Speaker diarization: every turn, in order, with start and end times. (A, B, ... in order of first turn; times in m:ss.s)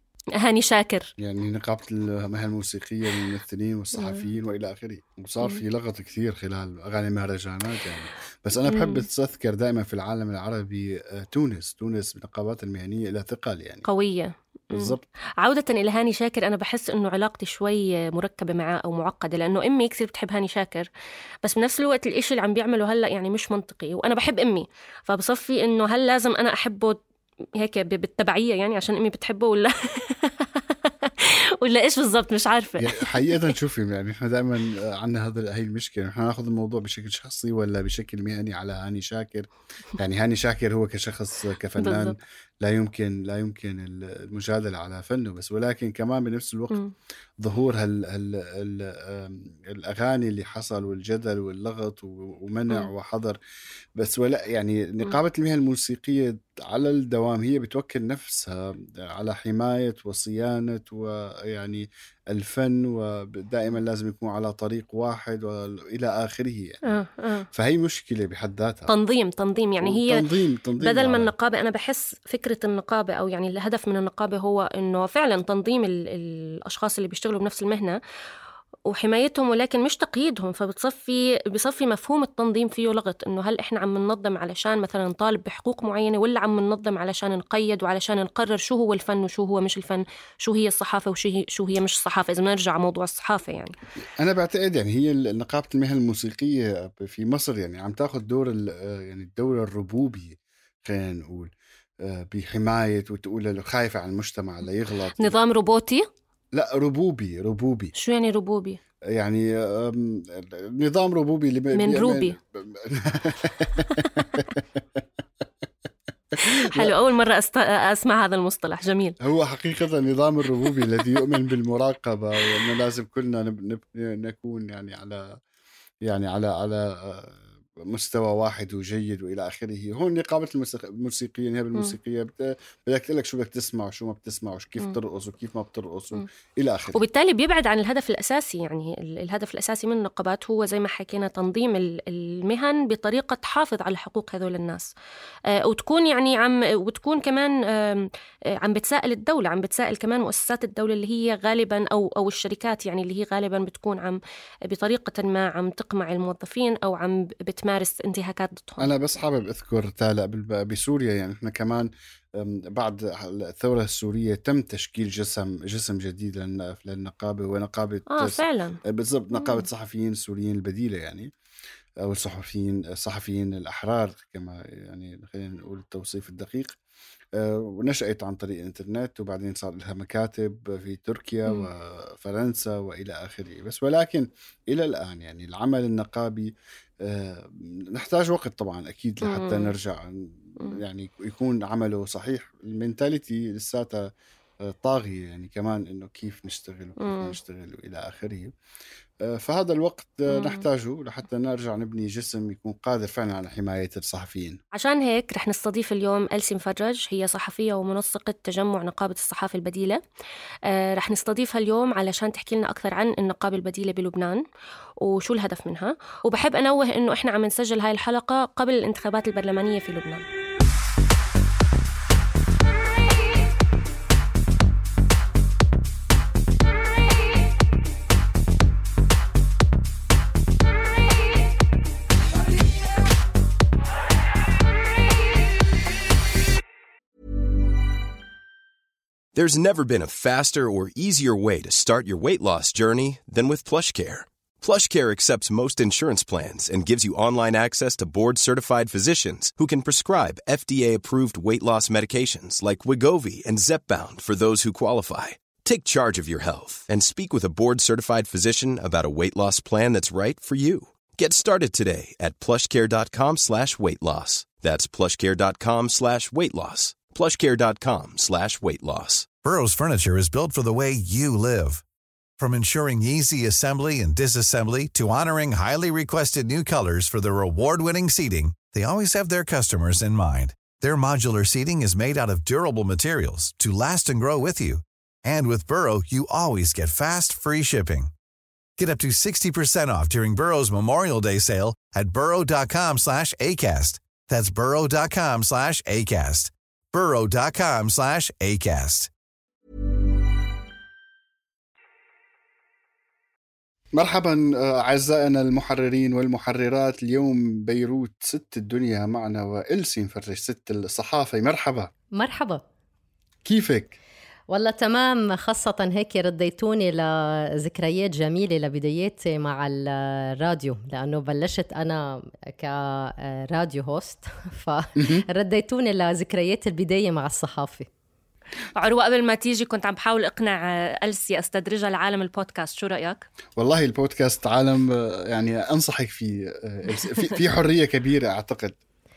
0:00.4-0:01.1 A
0:01.2-0:13.8 B
0:04.0-0:04.2 A
0:08.7-0:09.0 A
0:13.8-0:20.9 A
0:14.7-0:15.0 B
0:21.4-0:27.0 A
0:27.6-0:33.5 A
0:32.8-0:46.8 B
0:41.8-0:42.2 A
0:47.4-0:53.4 B
0:54.0-1:07.0 B
1:06.8-1:07.5 A
1:07.5-1:08.9 B
1:08.9-1:10.3 A
1:09.8-1:11.3 B
1:10.8-1:18.0 A
1:18.9-1:33.7 A
1:34.2-1:45.3 B
1:45.2-1:46.0 A
1:46.5-1:47.9 B
1:48.0-1:48.8 A
1:49.1-1:55.0 B
1:51.7-1:52.3 A
1:56.3-1:56.9 B
1:56.4-1:59.2 A
1:59.2-2:05.2 B
2:06.0-2:17.0 B
2:16.9-2:24.9 A
2:25.5-2:38.9 A
2:38.8-2:51.3 B
2:48.1-2:48.8 A
2:49.3-2:49.6 A
2:52.0-2:56.7 B
2:57.3-3:14.1 B
3:09.2-3:09.7 A
3:14.6-3:18.5 B
3:17.0-3:17.4 A
3:19.2-3:24.6 B
3:20.3-3:20.6 A
3:24.7-3:30.0 A
3:30.7-3:34.4 A
3:35.0-3:40.2 A
3:59.3-4:29.3 C
4:29.4-4:31.8 D
4:32.4-4:48.1 D
4:48.8-4:59.1 D
5:03.9-5:11.9 B
5:12.1-5:12.6 E
5:13.4-5:14.0 B
5:14.5-5:27.9 E
5:25.0-5:25.2 B
5:28.7-5:33.2 A
5:33.6-5:38.8 B